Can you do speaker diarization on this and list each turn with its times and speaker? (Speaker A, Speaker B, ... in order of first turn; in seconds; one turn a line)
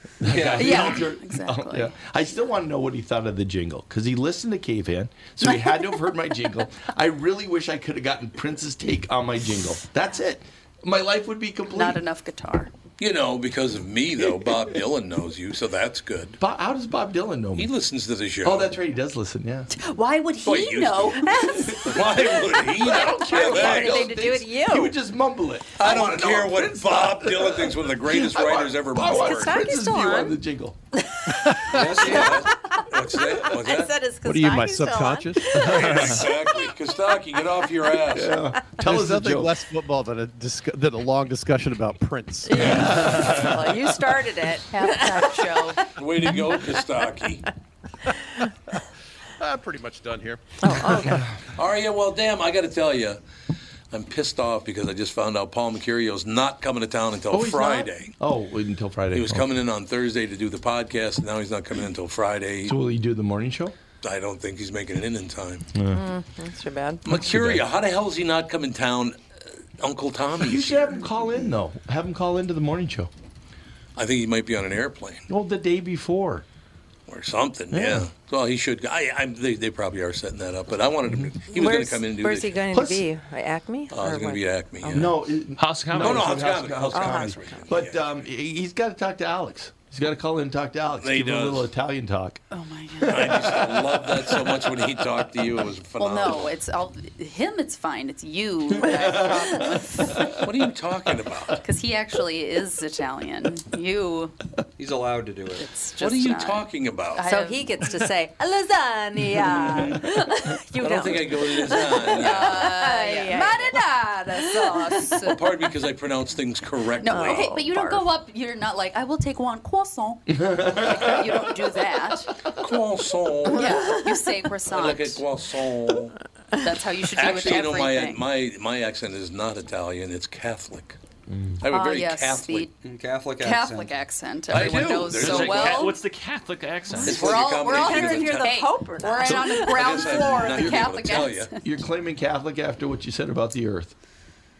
Speaker A: 0.2-12.0
Speaker B: 0.2-1.1
Speaker C: 0.6-2.0
Speaker C: 5.5-6.0
Speaker C: 11.7-12.7
Speaker D: 13.0-16.4
Speaker A: 16.4-17.7
Speaker D: 17.6-18.7
Speaker A: 18.4-19.7
Speaker C: 19.7-22.5
Speaker D: 20.4-24.1
Speaker A: 21.8-30.8
Speaker E: 23.2-24.9
Speaker D: 25.8-29.6
Speaker E: 29.1-30.4
Speaker B: 31.7-32.5
Speaker E: 31.8-32.8
Speaker D: 32.0-34.0
Speaker E: 33.4-36.3
Speaker F: 34.2-35.6
Speaker A: 35.5-36.0
Speaker D: 35.6-38.6
Speaker A: 38.1-39.5
Speaker F: 38.7-43.1
Speaker E: 42.5-45.8
Speaker D: 42.5-43.7
Speaker A: 43.1-43.4
Speaker C: 44.7-46.0
Speaker D: 45.9-47.4
Speaker F: 49.4-50.9
Speaker E: 50.6-51.2
Speaker A: 50.7-51.4
Speaker D: 51.5-53.2
Speaker D: 53.9-58.1
Speaker A: 57.3-59.5
Speaker D: 59.1-62.8
Speaker A: 62.6-63.7
Speaker D: 64.0-65.7
Speaker A: 65.7-66.0
Speaker E: 65.9-67.0
Speaker D: 67.0-69.2
Speaker A: 67.0-67.6
Speaker D: 69.8-71.0
Speaker A: 70.4-73.1
Speaker D: 74.0-75.2
Speaker A: 75.3-76.4
Speaker D: 77.1-82.7
Speaker A: 77.7-78.1
Speaker A: 81.0-81.3
Speaker E: 81.5-85.1
Speaker A: 82.7-83.0
Speaker D: 83.9-85.2
Speaker A: 84.9-92.4
Speaker G: 85.6-86.4
Speaker D: 85.9-88.0
Speaker E: 86.9-87.6
Speaker D: 91.0-91.7
Speaker C: 92.5-93.6
Speaker D: 93.0-96.5
Speaker A: 93.1-94.6
Speaker C: 96.0-100.4
Speaker A: 98.7-100.3
Speaker D: 100.3-101.6
Speaker C: 101.6-104.3
Speaker B: 104.8-105.7
Speaker C: 105.6-107.8
Speaker D: 106.0-107.3
Speaker E: 107.2-113.8
Speaker D: 109.5-109.8
Speaker B: 109.7-109.9
Speaker C: 110.8-115.7
Speaker D: 110.8-112.8
Speaker E: 114.3-115.1
Speaker D: 115.2-117.7
Speaker C: 117.0-122.4
Speaker E: 117.0-118.0
Speaker A: 120.3-121.6
Speaker D: 122.5-124.0
Speaker C: 123.5-125.2
Speaker E: 123.6-124.0
Speaker D: 124.7-126.1
Speaker C: 126.6-128.2
Speaker D: 127.1-131.0
Speaker A: 131.3-131.6
Speaker D: 131.6-132.7
Speaker C: 131.7-132.7
Speaker B: 132.8-133.9
Speaker C: 133.4-136.0
Speaker D: 134.5-135.9
Speaker G: 135.1-137.2
Speaker D: 137.0-138.5
Speaker C: 137.1-141.6
Speaker E: 137.1-139.9
Speaker D: 139.5-141.5
Speaker A: 140.6-143.9